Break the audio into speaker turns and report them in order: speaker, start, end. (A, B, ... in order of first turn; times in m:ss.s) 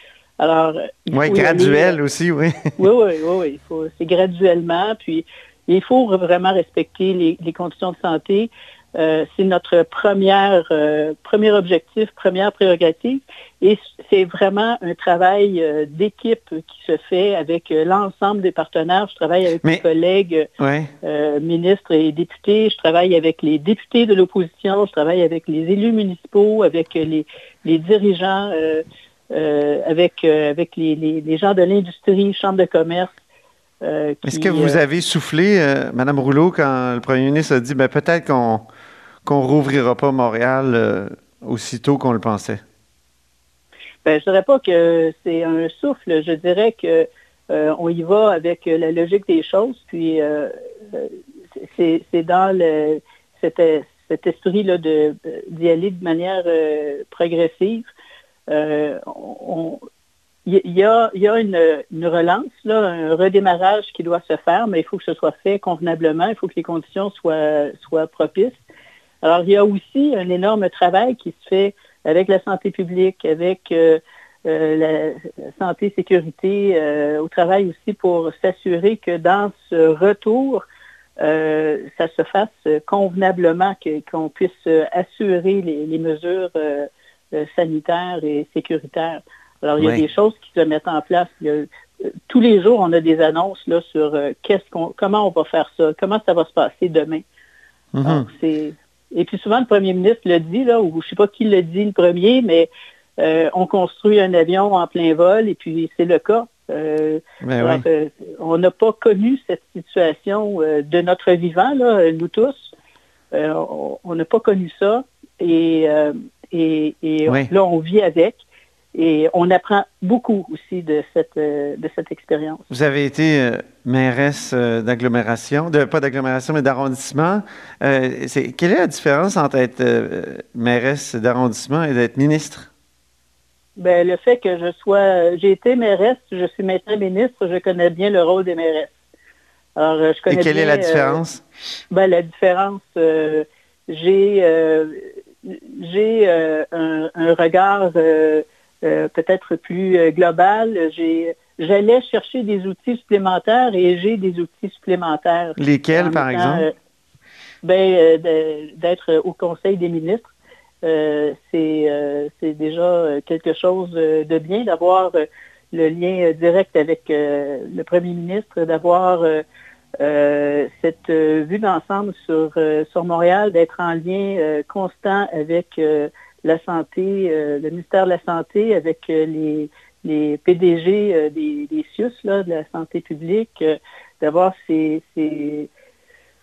0:00.4-0:02.0 A
0:01.1-0:02.8 B
0:02.8-0:20.5 A
0:20.6-0:20.9 B
0:21.0-0:33.1 A
0:33.8-0:34.8 A
0:34.2-0:38.6 B
0:39.2-0:42.6 B
0:44.0-0:57.9 A
0:58.5-0:59.8 A
1:00.4-1:08.6 A
1:09.2-1:20.6 A
1:21.2-1:31.7 A
1:29.8-1:30.0 B
1:32.3-1:37.2 A
1:37.9-1:38.3 B
1:38.0-1:52.7 A
1:47.4-1:47.8 B
1:53.3-1:58.4 A
1:58.9-2:02.6 A
2:02.7-2:12.7 B
2:13.8-2:18.9 A
2:19.8-2:21.2 A
2:20.3-2:21.4 B
2:21.9-2:36.7 A
2:35.6-2:36.6 B
2:37.6-2:40.3 A
2:40.8-2:45.2 A
2:45.7-2:49.4 A
2:50.0-3:05.7 A